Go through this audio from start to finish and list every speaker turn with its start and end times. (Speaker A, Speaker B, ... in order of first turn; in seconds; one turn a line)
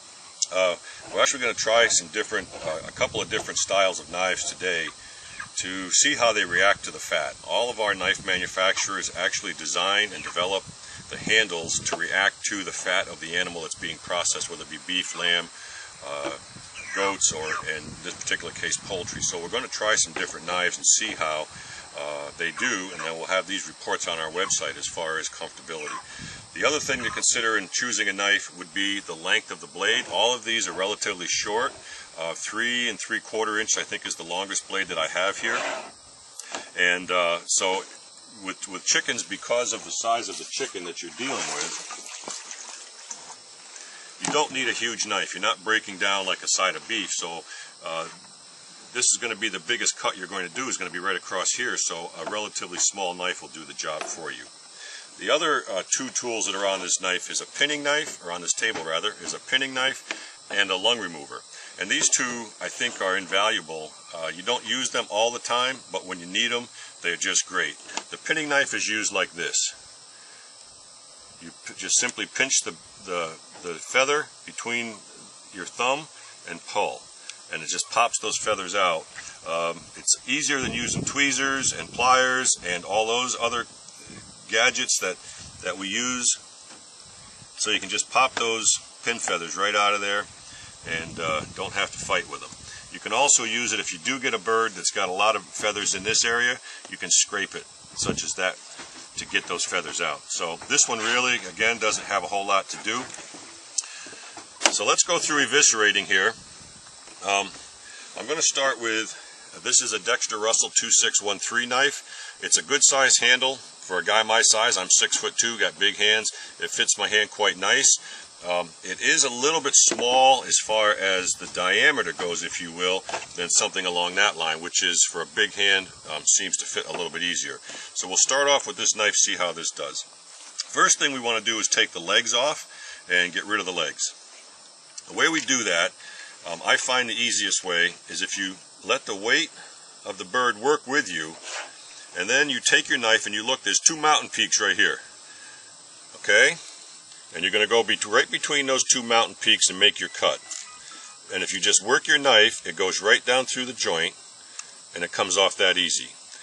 Speaker A: 0.5-4.9
Speaker A: 5.5-15.5
Speaker A: 16.0-16.4
Speaker A: 16.9-26.0
Speaker A: 26.5-35.7
Speaker A: 36.7-41.8
Speaker A: 44.2-48.1
Speaker A: 48.9-54.5
Speaker A: 55.2-69.7
Speaker A: 71.4-83.7
Speaker A: 84.5-86.4
Speaker A: 87.6-90.3
Speaker A: 90.8-98.6
Speaker A: 99.2-103.1
Speaker A: 104.7-106.4
Speaker A: 107.2-107.5
Speaker A: 108.1-130.1
Speaker A: 130.7-134.1
Speaker A: 135.1-139.5
Speaker A: 140.0-141.4
Speaker A: 142.1-145.0
Speaker A: 146.1-146.6
Speaker A: 147.3-150.4
Speaker A: 151.3-154.2
Speaker A: 154.9-156.1